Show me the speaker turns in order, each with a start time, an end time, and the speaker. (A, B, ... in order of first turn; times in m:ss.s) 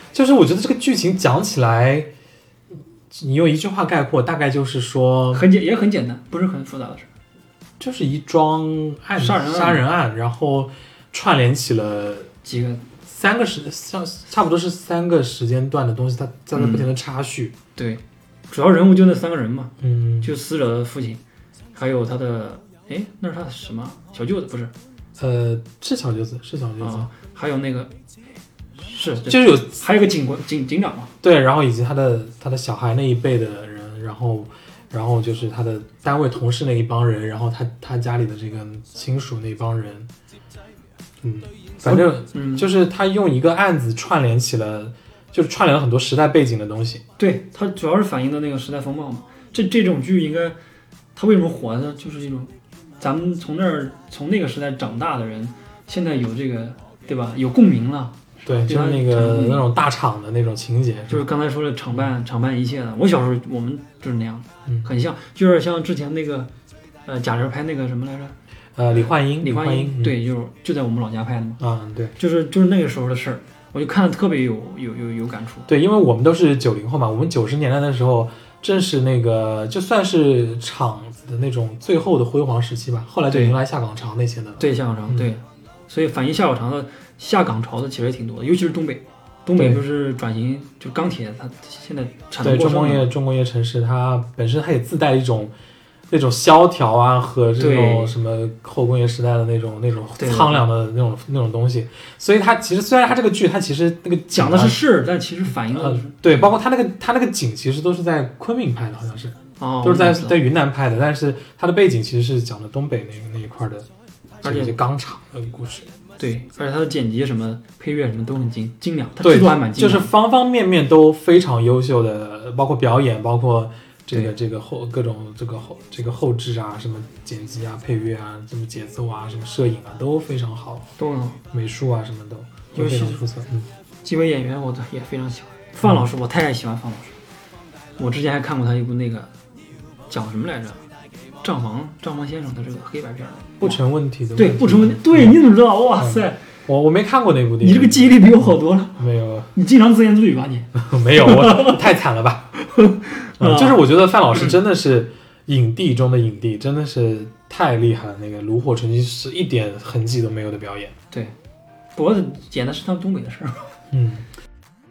0:00.1-0:02.1 A
0:03.1-0:05.4 A
0:05.3-0:07.1 B
0:07.8-0:12.3 A
0:09.2-0:09.8 B
0:12.4-0:12.8 B
0:13.0-0:17.5 A
0:16.5-0:16.9 B
0:17.8-0:21.2 B
0:19.8-0:20.3 A
0:21.7-0:24.7 B
0:25.2-0:27.1 A
0:26.8-0:27.9 B
0:28.8-0:31.1 B
0:29.2-0:29.8 A
0:31.2-0:40.1 A
0:41.2-0:47.0 A
0:41.8-0:42.7 B
0:47.2-0:50.6 B
0:51.1-0:59.6 B
0:58.4-1:01.2 A
1:01.1-1:06.5 B
1:07.0-1:08.4 B
1:08.8-1:10.2 A
1:08.9-1:11.6 B
1:11.6-1:12.1 A
1:12.2-1:15.7 B
1:15.7-1:25.3 A
1:23.3-1:23.6 B
1:24.6-1:33.1 B
1:29.6-1:29.8 A
1:32.4-1:35.5 A
1:36.1-1:44.8 A
1:37.6-1:38.1 B
1:40.2-1:40.6 B
1:44.3-1:46.5 B
1:45.6-1:53.9 A
1:49.6-1:50.4 B
1:54.4-1:55.9 A
1:54.4-1:54.8 B
1:56.2-2:00.1 B
1:59.2-2:10.8 A
2:11.0-2:11.4 B
2:11.5-2:13.7 A
2:12.7-2:13.2 B
2:14.0-2:17.2 B
2:18.0-2:19.3 B
2:20.1-2:20.8 B
2:21.4-2:23.8 B
2:23.6-2:25.4 A
2:24.4-2:26.4 B
2:26.0-2:29.5 A
2:27.6-2:29.0 B
2:29.5-2:31.8 B
2:30.7-2:32.5 A
2:32.6-2:34.5 B
2:33.4-2:40.9 A
2:42.0-2:43.7 B
2:43.9-2:44.2 A